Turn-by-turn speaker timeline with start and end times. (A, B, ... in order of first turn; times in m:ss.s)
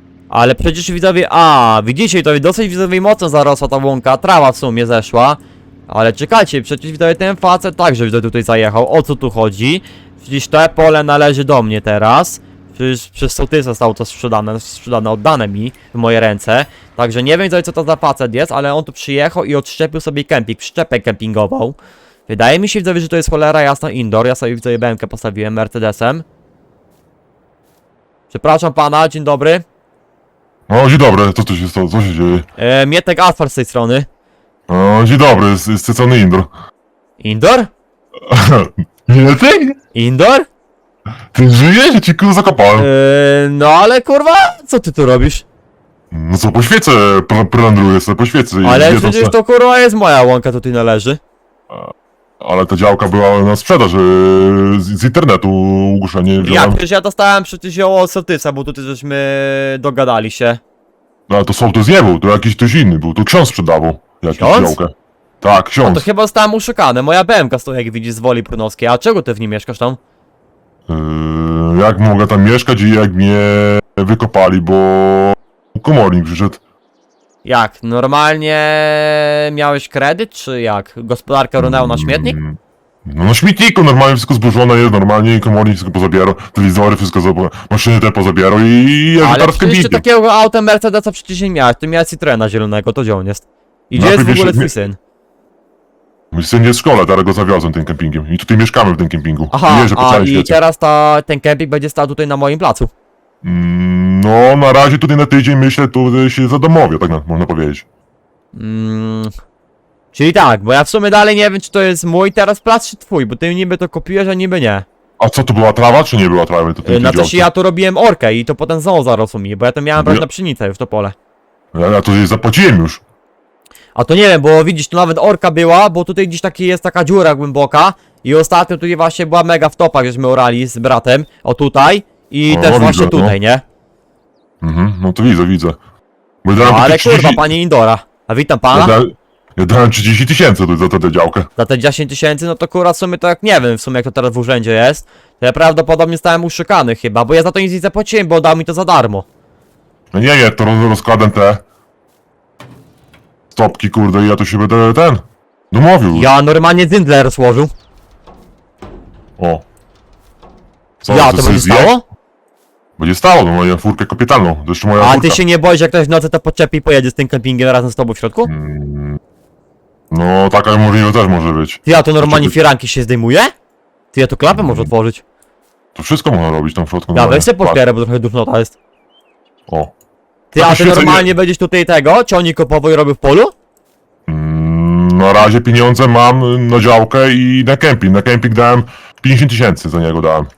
0:00.3-0:21.8 A
0:22.3-0:26.2 A
0:28.3-0:29.6 A
0:30.7-0:32.4 B
0:32.6-0:34.1 A
0:34.7-0:36.5 B
0:37.2-0:37.7 A
0:38.3-0:39.8 B
0:39.9-0:40.5 A
0:41.3-0:42.9 B
0:42.8-0:45.4 A
0:46.1-0:49.3 B
0:48.6-0:51.2 A
0:51.7-0:56.8 B
0:56.4-1:00.6 A
1:01.3-1:06.1 B
1:04.4-1:04.8 A
1:05.8-1:10.0 A
1:10.9-1:16.6 B
1:17.4-1:22.4 A
1:21.6-1:30.0 B
1:29.2-1:35.0 A
1:34.0-1:34.7 B
1:36.3-1:40.6 B
1:39.5-1:42.9 A
1:43.4-1:47.8 B
1:48.5-1:49.3 A
1:50.1-1:54.8 A
1:55.2-1:57.5 B
1:56.8-2:01.1 A
2:00.0-2:00.2 B
2:01.7-2:03.0 B
2:04.0-2:13.6 A
2:12.5-2:13.4 B
2:14.6-2:15.8 B
2:16.4-2:17.4 B
2:16.6-2:18.9 A
2:18.7-2:21.5 B
2:21.6-2:29.2 A
2:30.1-2:31.6 B
2:33.5-2:36.3 B
2:36.1-2:37.7 A
2:39.4-2:39.6 B
2:41.0-2:41.9 B
2:41.1-2:42.0 A
2:43.0-2:45.4 B
2:45.0-2:48.5 A
2:48.5-2:49.2 B
2:50.1-2:52.6 B
2:51.8-2:53.5 A
2:54.1-2:55.2 A
2:54.5-2:54.9 B
2:55.9-2:57.8 B
2:57.1-2:58.7 A
2:59.7-2:59.9 B
3:00.5-3:01.3 B
3:00.5-3:03.5 A
3:04.3-3:10.5 B